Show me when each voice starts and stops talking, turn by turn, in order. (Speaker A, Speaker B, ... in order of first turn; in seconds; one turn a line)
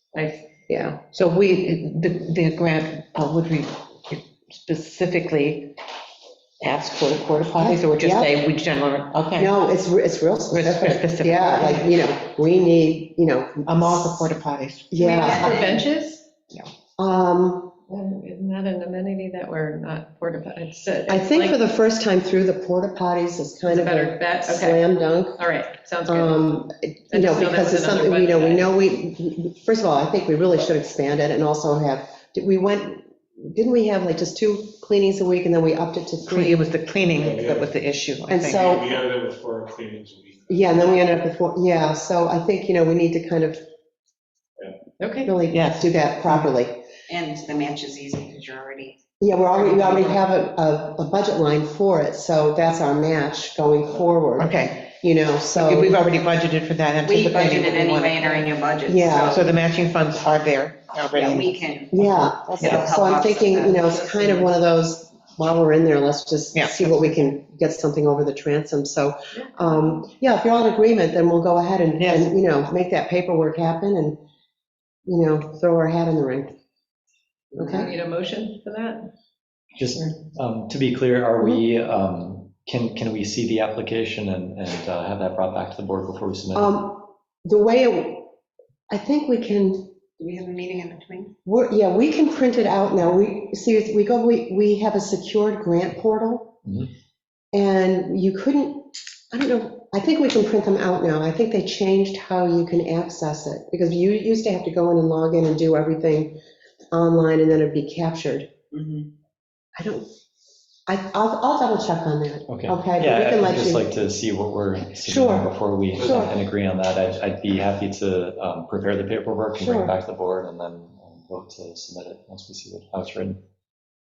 Speaker A: 0.1-0.5
Speaker B: 0.7-1.0
Speaker C: 1.1-5.7
Speaker C: 6.6-9.5
Speaker B: 7.5-8.4
Speaker B: 9.3-14.2
Speaker C: 10.5-11.9
Speaker C: 13.7-14.9
Speaker B: 14.9-15.7
Speaker A: 14.9-16.2
Speaker D: 15.2-15.8
Speaker B: 17.0-17.8
Speaker A: 17.9-21.6
Speaker B: 21.1-25.4
Speaker A: 23.7-26.5
Speaker B: 26.1-36.7
Speaker A: 27.1-28.7
Speaker C: 36.3-38.7
Speaker E: 37.0-37.8
Speaker B: 38.3-38.9
Speaker E: 38.5-40.9
Speaker B: 40.5-43.6
Speaker A: 45.0-45.3
Speaker B: 45.2-46.8
Speaker C: 45.5-46.5
Speaker D: 47.1-49.0
Speaker B: 49.2-56.0
Speaker D: 49.5-50.2
Speaker C: 54.4-54.9
Speaker C: 55.5-58.5
Speaker D: 57.0-59.5
Speaker B: 58.9-59.4
Speaker C: 59.3-62.8
Speaker D: 61.1-64.5
Speaker B: 61.9-74.2
Speaker C: 66.5-67.0
Speaker A: 69.3-69.8
Speaker C: 72.0-72.3
Speaker B: 75.1-76.5
Speaker B: 77.5-77.9
Speaker A: 77.6-79.1
Speaker F: 79.8-86.7
Speaker B: 86.5-88.3
Speaker B: 88.9-89.9
Speaker D: 90.2-91.3
Speaker B: 91.4-96.6
Speaker B: 97.5-106.4
Speaker B: 106.9-108.5
Speaker D: 108.7-109.1
Speaker B: 109.8-110.1
Speaker B: 110.9-114.0
Speaker F: 112.5-123.4
Speaker B: 115.0-116.3
Speaker E: 115.9-116.2
Speaker B: 119.5-119.9